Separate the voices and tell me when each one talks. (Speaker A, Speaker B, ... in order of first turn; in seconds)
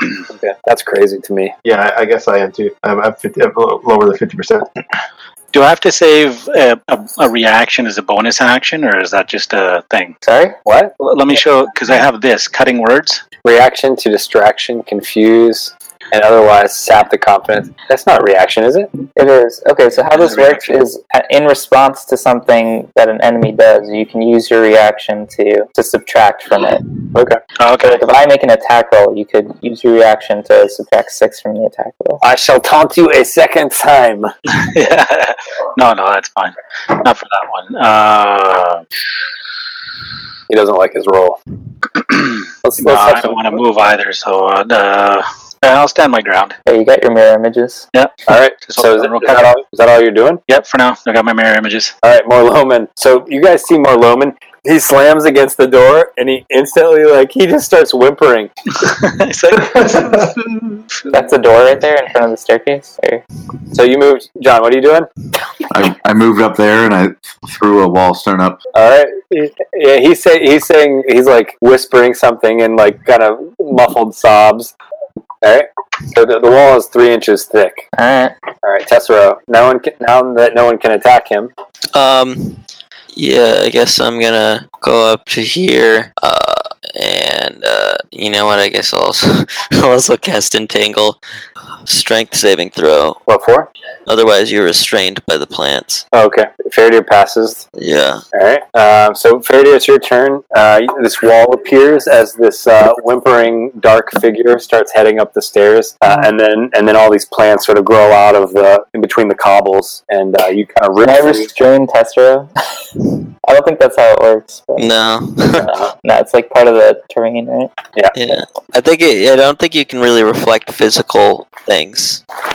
Speaker A: 0.3-1.5, 10.7-10.9, 13.4-18.9, 27.1-27.4, 32.2-34.3, 40.5-41.4, 42.8-43.3, 48.3-50.4, 52.0-58.5, 63.7-65.1, 68.7-74.7, 75.4-77.9, 78.6-81.5, 93.3-93.7, 96.1-97.6, 98.3-111.5, 115.5-115.9
Speaker B: 1.6-4.7, 59.6-60.3
Speaker C: 5.5-10.2, 11.0-13.2, 20.1-20.7, 27.6-28.0, 34.5-38.8, 42.0-46.6, 47.9-49.5, 50.5-51.9, 58.7-60.3
Speaker D: 10.2-10.6, 19.1-26.8, 27.8-32.2, 42.6-43.4, 46.7-47.9, 61.1-63.2, 78.0-78.3, 111.0-112.5, 113.4-114.9, 115.6-117.7
Speaker E: 65.7-68.6
Speaker F: 81.9-82.6, 83.1-91.2, 91.8-93.2, 94.1-96.0, 97.8-98.2, 114.8-115.7, 118.1-122.2